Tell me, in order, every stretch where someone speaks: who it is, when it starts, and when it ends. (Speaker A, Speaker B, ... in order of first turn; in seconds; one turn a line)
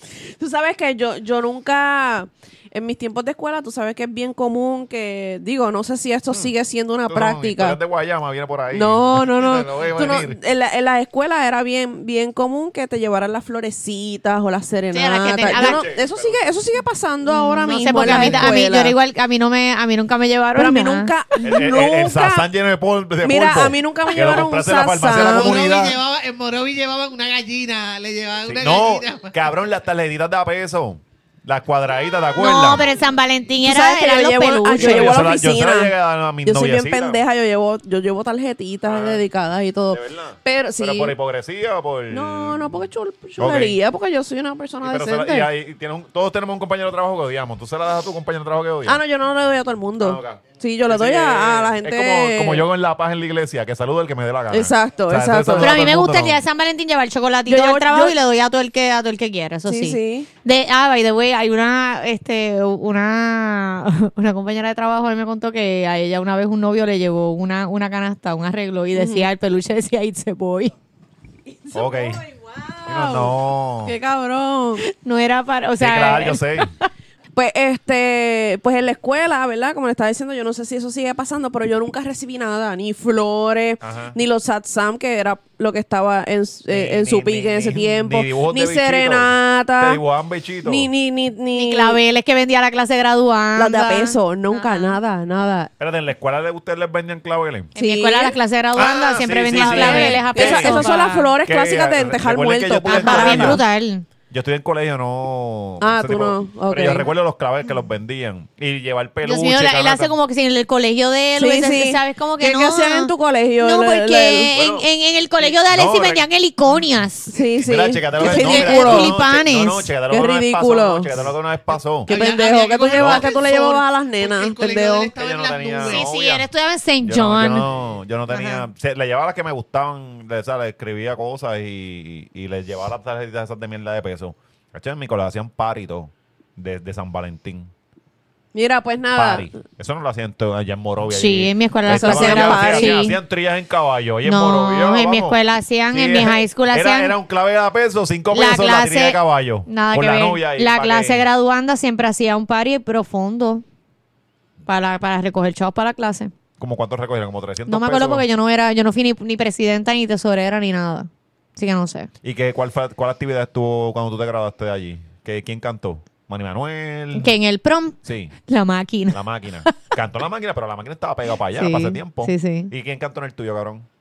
Speaker A: 0.4-7.8
Speaker B: 7.1-10.4
Speaker A: 8.7-18.9
Speaker C: 14.9-15.8
Speaker B: 15.5-16.4
Speaker C: 17.3-21.1
Speaker B: 18.1-18.5
Speaker A: 20.6-22.4
Speaker B: 21.4-26.0
Speaker A: 23.2-25.6
Speaker D: 25.1-29.4
Speaker B: 28.5-32.8
Speaker C: 32.4-35.2
Speaker A: 33.6-35.9
Speaker B: 34.8-37.2
Speaker A: 36.4-41.1
Speaker B: 38.8-39.2
Speaker B: 39.9-42.9
Speaker A: 42.1-45.5
Speaker B: 43.4-43.8
Speaker B: 44.8-49.0
Speaker A: 48.8-52.6
Speaker B: 50.0-56.4
Speaker A: 54.5-55.7
Speaker C: 55.6-70.7
Speaker A: 57.5-58.2
Speaker A: 59.7-60.3
Speaker A: 68.9-69.3
Speaker A: 71.5-73.3
Speaker B: 71.7-72.2
Speaker B: 72.8-74.0
Speaker A: 73.8-74.8
Speaker C: 74.8-76.8
Speaker B: 75.8-76.7
Speaker A: 77.3-90.0
Speaker B: 83.8-84.2
Speaker B: 86.7-90.9
Speaker A: 90.6-92.0
Speaker C: 91.5-95.0
Speaker A: 93.5-95.7
Speaker B: 95.8-97.7
Speaker C: 97.7-101.3
Speaker A: 97.8-98.4
Speaker B: 98.8-100.9
Speaker A: 99.5-103.6
Speaker B: 101.4-103.6
Speaker C: 102.8-104.0
Speaker B: 104.3-110.2
Speaker A: 105.8-107.1
Speaker C: 109.2-117.3
Speaker A: 111.3-114.5
Speaker B: 114.5-114.8
Speaker B: 115.4-116.2
Speaker A: 117.3-119.1
Speaker B: 117.6-122.1
Speaker C: 118.2-119.9
Speaker A: 120.1-121.1
Speaker A: 122.0-125.1
Speaker D: 122.1-126.1
Speaker B: 123.0-123.3
Speaker B: 125.2-126.5
Speaker C: 125.8-127.7
Speaker B: 127.0-137.7
Speaker C: 128.3-128.6
Speaker A: 138.5-139.5
Speaker B: 139.1-145.4
Speaker C: 141.1-143.2
Speaker A: 141.9-143.0
Speaker C: 144.2-147.1
Speaker B: 145.9-151.2
Speaker C: 148.3-153.6
Speaker C: 154.7-156.3
Speaker B: 156.6-158.2
Speaker C: 157.7-162.1
Speaker B: 162.2-167.3
Speaker C: 167.1-169.8
Speaker B: 168.0-168.3
Speaker B: 169.1-173.9
Speaker C: 171.5-172.7